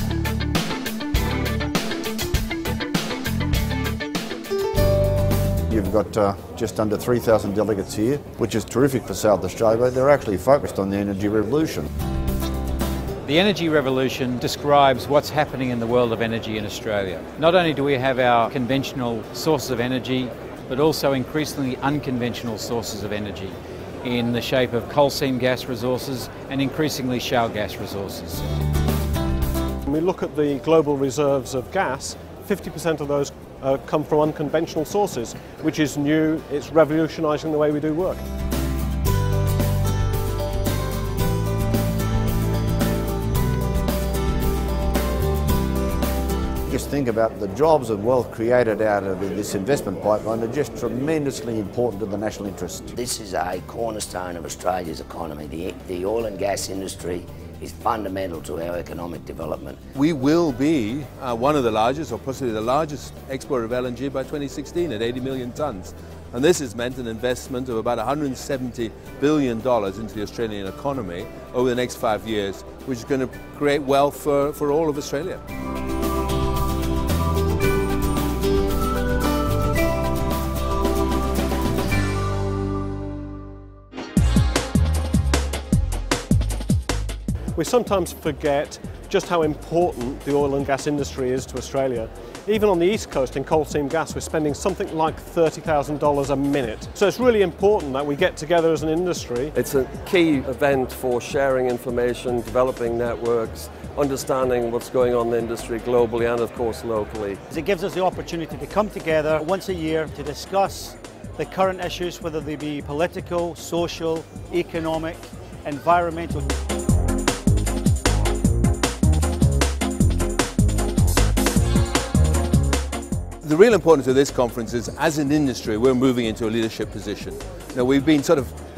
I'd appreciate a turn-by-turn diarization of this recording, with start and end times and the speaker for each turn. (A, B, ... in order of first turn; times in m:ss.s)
0:05.7-0:11.9 A
0:13.2-0:28.5 B
0:29.9-0:38.2 C
0:46.7-0:53.0 A
0:53.0-0:59.8 D
1:00.0-1:15.4 E
1:27.6-1:39.5 C
1:39.5-1:47.4 F
1:47.5-1:56.5 G
2:03.4-2:08.5 E